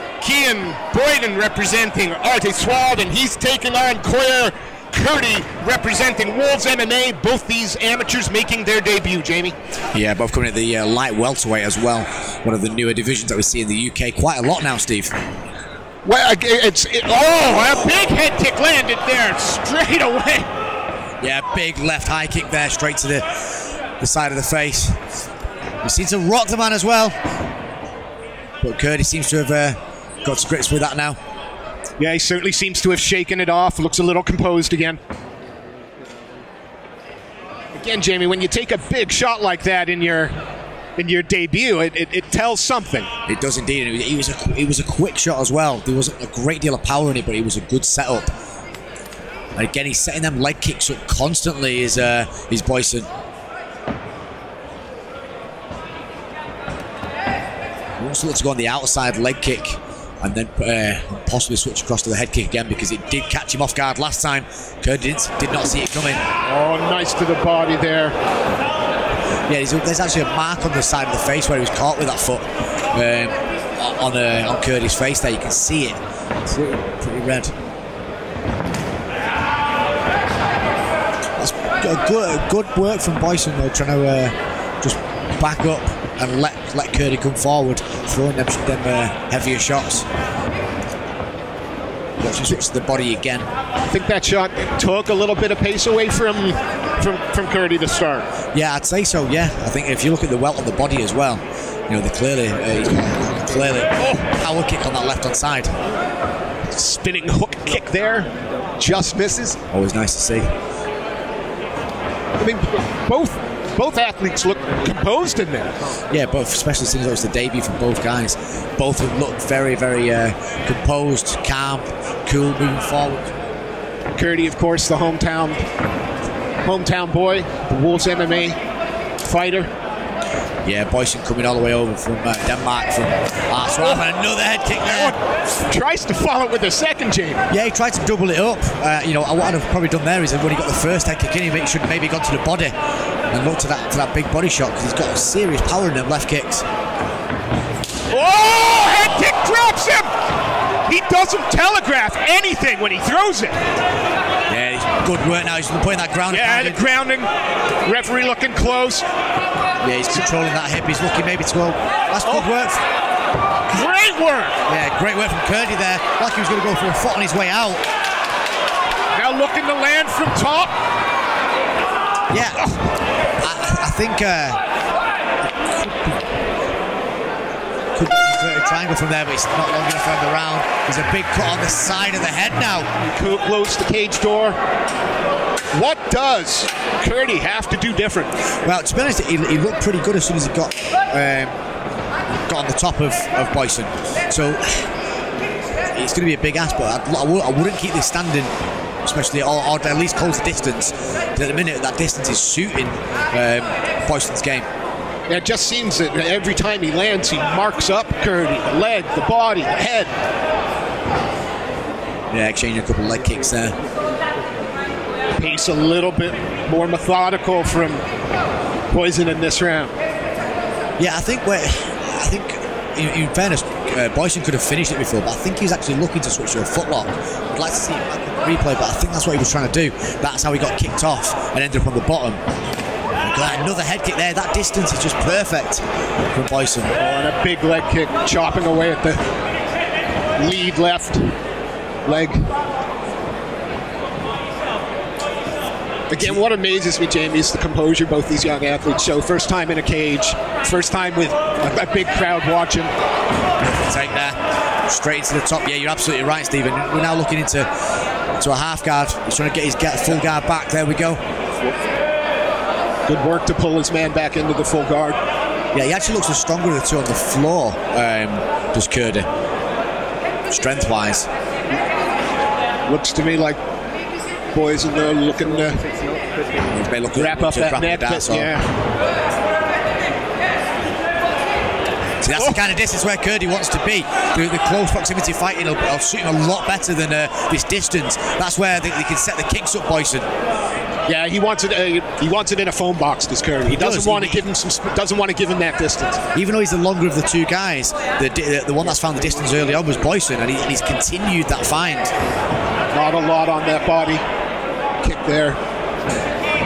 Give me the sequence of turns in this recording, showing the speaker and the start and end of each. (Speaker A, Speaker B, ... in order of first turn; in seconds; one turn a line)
Speaker A: 0.2-9.5
Speaker B: 9.9-15.1
Speaker A: 16.0-20.5
Speaker B: 21.2-23.2
Speaker B: 24.0-25.0
Speaker B: 25.8-27.1
Speaker B: 28.6-31.2
Speaker A: 32.0-35.0
Speaker A: 37.7-40.3
Speaker A: 41.0-43.1
Speaker B: 43.3-48.3
Speaker B: 49.5-53.1
Speaker B: 58.0-66.2
Speaker A: 66.4-68.2
Speaker B: 69.5-77.5
Speaker B: 81.4-90.0
Speaker B: 92.2-93.5
Speaker A: 93.9-98.3
Speaker B: 98.5-105.7
Speaker A: 104.0-104.3
Speaker A: 106.7-109.6
Speaker B: 109.7-110.5
Speaker A: 112.4-115.7
Speaker B: 116.1-123.3
Speaker A: 124.1-125.6
Speaker A: 126.6-128.6
Speaker A: 129.2-129.7
Speaker B: 130.6-135.2
Speaker A: 134.8-137.4
Speaker B: 137.5-142.7
Speaker B: 143.3-146.6
Speaker A: 148.1-150.1
Speaker A: 150.8-153.6
Speaker B: 154.5-156.8
Speaker A: 156.3-157.3
Speaker A: 157.8-159.1
Speaker B: 159.8-162.8
Speaker A: 163.7-164.6
Speaker B: 164.7-167.8
Speaker A: 169.1-170.7
Speaker B: 172.3-172.6
Speaker B: 173.4-174.6
Speaker B: 175.4-176.2
Speaker B: 177.9-182.9
Speaker A: 183.1-184.6
Speaker A: 185.7-188.3
Speaker B: 188.6-191.5
Speaker B: 192.5-194.9
Speaker B: 195.9-198.5
Speaker B: 199.0-204.7
Speaker A: 205.3-210.1
Speaker B: 212.3-213.8
Speaker A: 215.4-218.0
Speaker A: 218.9-219.9
Speaker B: 221.0-232.4
Speaker B: 233.2-236.9
Speaker A: 237.0-239.2
Speaker A: 240.4-241.3
Speaker A: 242.0-242.5
Speaker A: 246.1-252.9
Speaker B: 253.6-257.7
Speaker B: 258.3-261.2
Speaker A: 263.1-265.2
Speaker B: 265.7-269.2
Speaker B: 270.5-271.3
Speaker A: 272.9-273.6
Speaker A: 274.5-275.8
Speaker B: 276.7-278.5
Speaker A: 277.1-278.7
Speaker B: 282.2-290.2
Speaker A: 282.3-282.6
Speaker A: 291.1-296.2
Speaker B: 293.7-294.5
Speaker B: 296.3-302.1
Speaker A: 302.9-304.2
Speaker A: 305.0-305.6